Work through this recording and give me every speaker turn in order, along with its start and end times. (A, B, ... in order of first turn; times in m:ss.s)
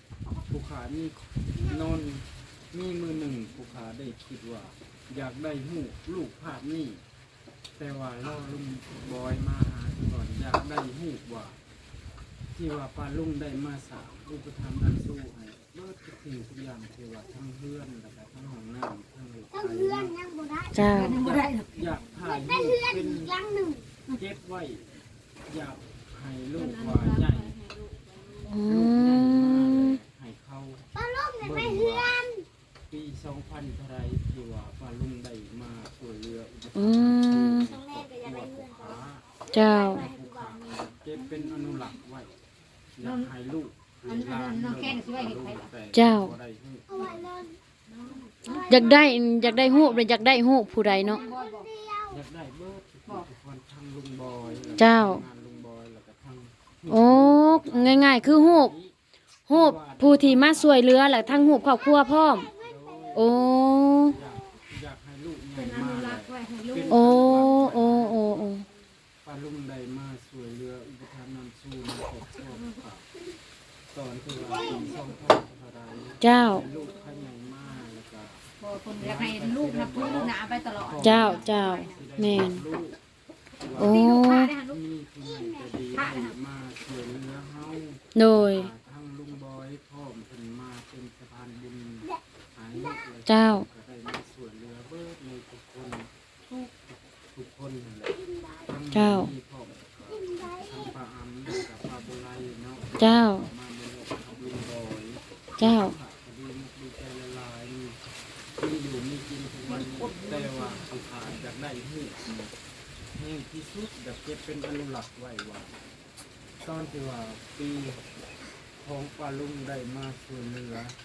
0:00.5-0:07.0 A
0:07.8-0:11.6 A
0:12.6-0:20.2 A
0:19.7-0:20.7 B
0:20.7-0:21.2 C
0:20.9-0:21.8 D
0:20.9-0:23.4 A
0:22.3-0:23.8 B
0:24.1-0:27.5 A
0:26.7-0:28.4 D
0:28.5-0:30.0 C
0:28.6-0:30.9 A
0:31.0-0:32.4 B
0:31.4-0:32.2 A
0:32.9-0:39.2 A
0:36.8-0:37.7 C
0:38.0-0:38.5 B
0:39.5-0:40.0 C
0:39.7-0:40.6 B
0:39.8-0:42.4 A
0:43.0-0:47.2 A
0:43.0-0:43.3 D
0:44.1-0:45.7 D
0:45.9-0:46.3 C
0:47.1-0:47.6 B
0:48.3-0:48.7 D
0:48.7-0:51.2 C
0:48.7-0:50.2 A
0:51.1-0:51.7 D
0:51.2-0:52.1 B
0:52.1-0:58.9 A
0:54.8-0:55.2 C
0:56.9-0:58.7 C
0:59.5-1:00.8 A
0:59.5-1:02.5 C
1:02.6-1:03.4 A
1:03.1-1:04.2 C
1:04.1-1:08.5 A
1:05.6-1:07.1 D
1:06.9-1:08.6 C
1:09.2-1:13.1 A
1:13.9-1:18.4 A
1:16.2-1:16.6 C
1:18.6-1:21.7 D
1:19.0-1:23.0 A
1:21.0-1:22.6 C
1:23.7-1:24.0 A
1:23.8-1:24.5 C
1:23.8-1:24.8 D
1:24.7-1:36.7 A
1:25.9-1:26.3 D
1:28.1-1:28.7 C
1:33.2-1:33.6 C
1:37.3-1:48.0 A
1:38.9-1:39.3 C
1:43.0-1:43.5 C
1:45.6-1:46.0 C
1:48.6-1:52.5 A
1:49.7-1:50.7 D
1:53.1-1:55.7 A
1:56.6-1:58.0 A
1:58.8-2:01.0 A